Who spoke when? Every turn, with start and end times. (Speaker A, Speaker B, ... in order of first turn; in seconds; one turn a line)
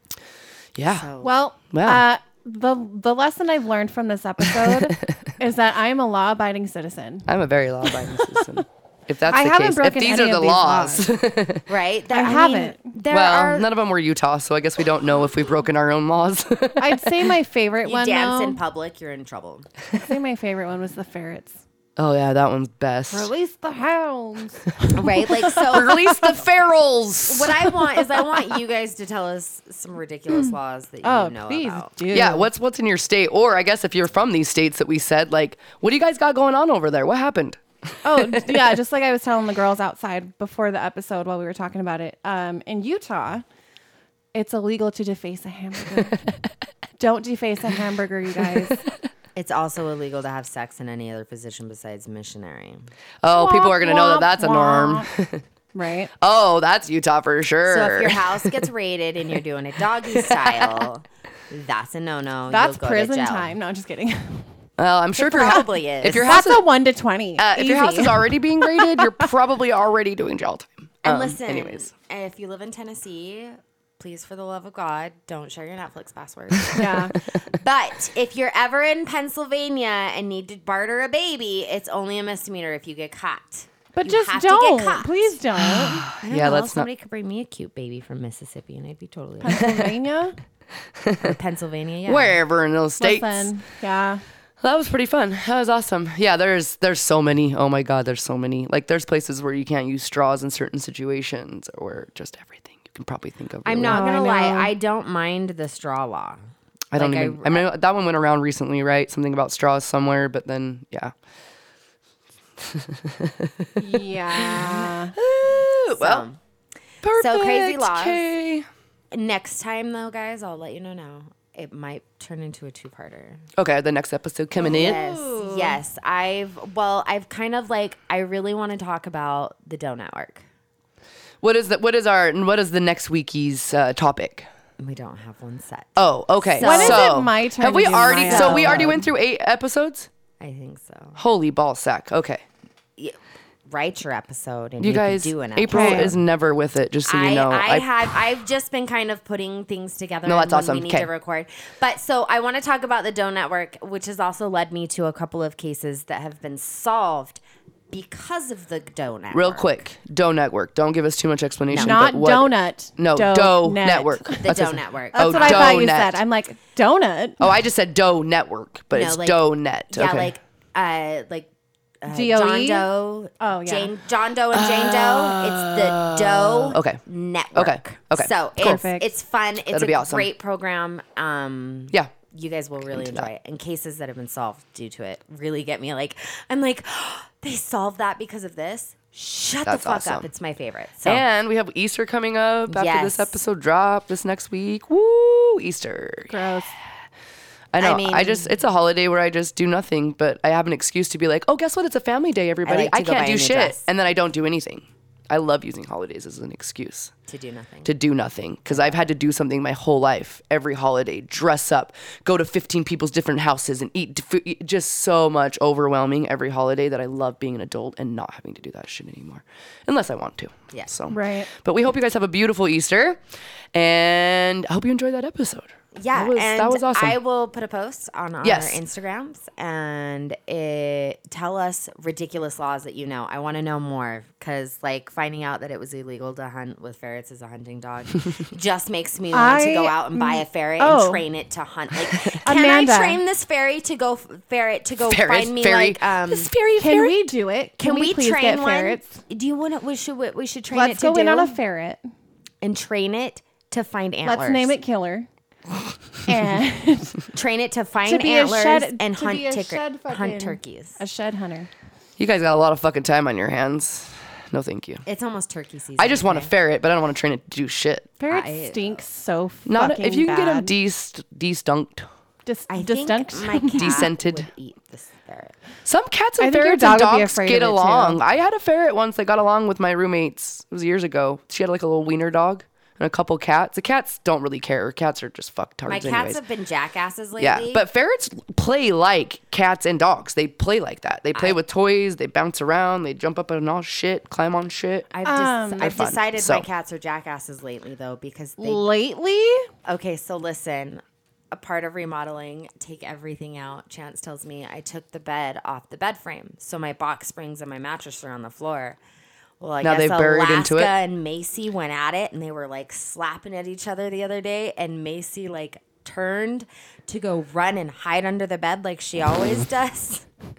Speaker A: 0.8-1.1
Speaker B: 0.8-1.3
Speaker C: 1.2-7.3
Speaker A: 1.7-2.0
Speaker A: 4.5-5.2
Speaker A: 7.3-11.6
Speaker C: 7.8-8.6
Speaker C: 9.3-11.1
Speaker B: 11.7-13.7
Speaker C: 12.1-12.9
Speaker A: 13.1-17.3
Speaker C: 16.8-18.6
Speaker B: 17.8-19.7
Speaker C: 19.9-21.6
Speaker A: 22.0-23.3
Speaker C: 23.1-26.1
Speaker B: 24.9-26.3
Speaker A: 25.7-27.8
Speaker B: 27.3-31.9
Speaker C: 31.0-32.5
Speaker A: 32.1-38.7
Speaker C: 38.0-43.5
Speaker C: 44.3-46.3
Speaker C: 47.0-48.8
Speaker A: 48.4-48.7
Speaker B: 49.4-52.9
Speaker A: 53.2-55.4
Speaker C: 53.3-55.1
Speaker C: 55.7-56.1
Speaker A: 56.2-58.7
Speaker B: 57.6-63.5
Speaker A: 60.1-60.9
Speaker C: 62.5-64.5
Speaker A: 64.8-66.6
Speaker B: 65.2-66.3
Speaker C: 66.2-69.3
Speaker A: 67.4-71.9
Speaker B: 71.0-85.4
Speaker A: 76.7-77.1
Speaker C: 76.8-77.1
Speaker C: 84.0-86.1
Speaker A: 85.7-86.9
Speaker B: 86.1-89.7
Speaker C: 89.4-90.4
Speaker A: 89.6-89.9
Speaker A: 91.0-91.4
Speaker B: 91.2-92.4
Speaker A: 92.0-93.5
Speaker C: 93.0-94.2
Speaker A: 94.6-104.0
Speaker B: 103.6-106.4
Speaker C: 103.8-104.7
Speaker A: 106.9-111.1
Speaker B: 106.9-107.7
Speaker A: 112.6-116.2
Speaker C: 113.8-115.2
Speaker B: 115.9-116.4
Speaker A: 117.0-118.7
Speaker B: 117.1-118.3
Speaker B: 119.1-123.5
Speaker A: 123.6-125.8
Speaker B: 124.6-130.5
Speaker A: 131.4-134.5
Speaker B: 134.8-137.1
Speaker A: 136.0-140.1
Speaker C: 136.6-139.0
Speaker B: 138.0-139.0
Speaker B: 140.4-141.2
Speaker A: 141.2-142.4
Speaker B: 143.0-146.1
Speaker A: 144.8-148.2
Speaker C: 145.7-146.1
Speaker B: 147.1-159.8
Speaker A: 150.2-151.1
Speaker A: 159.3-166.2
Speaker B: 161.7-162.0
Speaker C: 161.8-164.4
Speaker B: 164.4-165.9
Speaker C: 165.1-167.4
Speaker A: 167.4-170.3
Speaker B: 168.9-171.5
Speaker B: 172.0-191.2
Speaker C: 172.1-172.9
Speaker C: 173.4-173.9
Speaker A: 174.5-177.0
Speaker A: 177.6-178.9
Speaker C: 178.6-179.1
Speaker A: 179.6-180.3
Speaker A: 182.9-183.3
Speaker A: 189.6-190.3
Speaker A: 191.1-196.3
Speaker B: 192.7-193.4
Speaker C: 196.3-196.8
Speaker A: 197.7-207.1
Speaker B: 197.8-198.5
Speaker B: 202.7-203.9
Speaker B: 207.3-207.9
Speaker A: 207.8-223.2
Speaker B: 208.7-209.1
Speaker C: 221.1-221.5
Speaker A: 223.7-227.2
Speaker B: 225.9-246.5
Speaker A: 228.4-228.8
Speaker C: 239.3-241.2
Speaker C: 242.4-243.2
Speaker A: 245.1-247.3
Speaker C: 246.7-249.2
Speaker B: 247.8-251.6
Speaker C: 250.7-252.0
Speaker B: 252.6-254.7
Speaker C: 254.2-255.3
Speaker C: 256.2-257.2
Speaker B: 257.3-261.0
Speaker C: 258.1-261.7
Speaker A: 262.2-265.0
Speaker B: 265.1-266.5
Speaker A: 266.0-268.1
Speaker C: 268.2-270.7
Speaker B: 268.3-269.0
Speaker A: 269.7-272.1
Speaker C: 272.5-274.1
Speaker B: 272.7-275.6
Speaker A: 273.8-274.5
Speaker A: 275.9-286.4
Speaker C: 276.4-278.2
Speaker B: 285.9-287.9
Speaker A: 287.4-295.1
Speaker B: 295.1-298.8
Speaker C: 295.2-296.0
Speaker A: 295.8-296.7
Speaker C: 298.6-299.7
Speaker B: 299.9-309.0
Speaker B: 309.6-320.2
Speaker A: 309.8-310.9